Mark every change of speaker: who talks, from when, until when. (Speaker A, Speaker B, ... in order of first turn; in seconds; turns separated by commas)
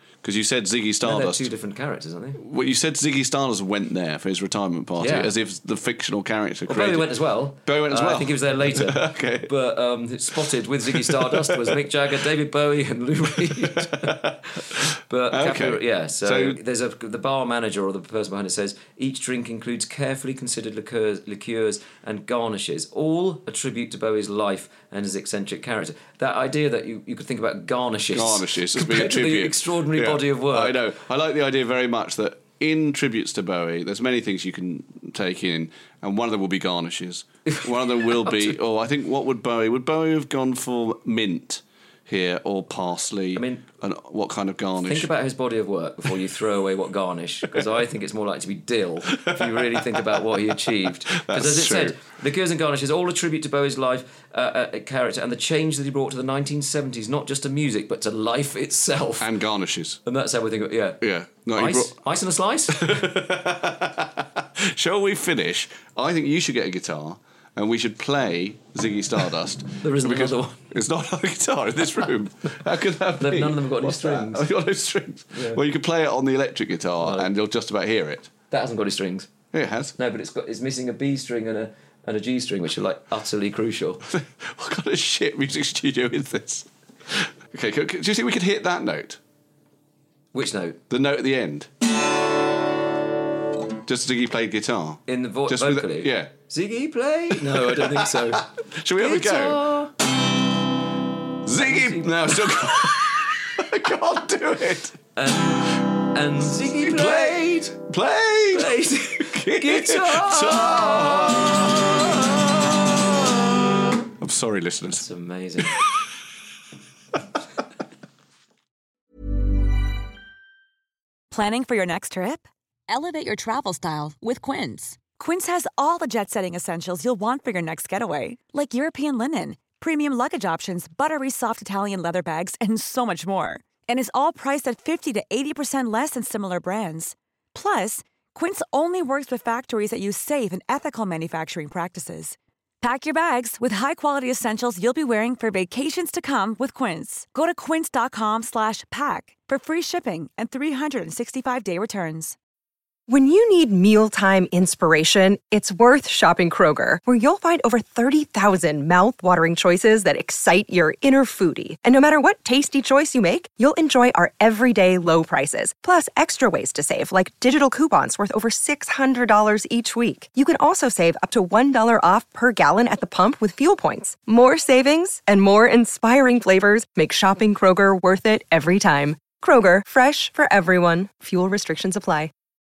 Speaker A: 0.2-1.5, Speaker B: 1.0-2.4, Speaker A: 2.4-9.5, Speaker B: 5.0-5.3, Speaker B: 6.7-30.8, Speaker A: 10.9-11.9, Speaker A: 13.5-16.6, Speaker A: 28.1-45.1, Speaker B: 37.5-38.6, Speaker B: 43.3-43.6, Speaker B: 44.8-59.3, Speaker A: 49.1-50.2, Speaker A: 51.0-52.0, Speaker A: 59.2-60.0, Speaker B: 60.0-61.0, Speaker A: 61.0-62.0, Speaker B: 61.5-63.0, Speaker A: 62.7-78.3, Speaker B: 69.8-70.6, Speaker B: 73.2-74.5, Speaker B: 75.3-75.6, Speaker B: 77.0-77.3, Speaker B: 78.5-79.3, Speaker A: 79.5-79.9, Speaker B: 80.0-84.0, Speaker A: 84.1-89.2, Speaker B: 90.3-90.8, Speaker A: 90.9-91.7, Speaker A: 93.8-96.3, Speaker B: 95.1-99.9, Speaker A: 97.3-99.6, Speaker A: 101.4-105.0, Speaker B: 101.5-102.7, Speaker B: 105.1-107.8, Speaker A: 106.4-113.4, Speaker B: 108.5-111.7, Speaker A: 114.2-115.0, Speaker B: 114.9-115.8, Speaker A: 115.7-116.1, Speaker C: 121.3-152.4, Speaker D: 153.1-182.3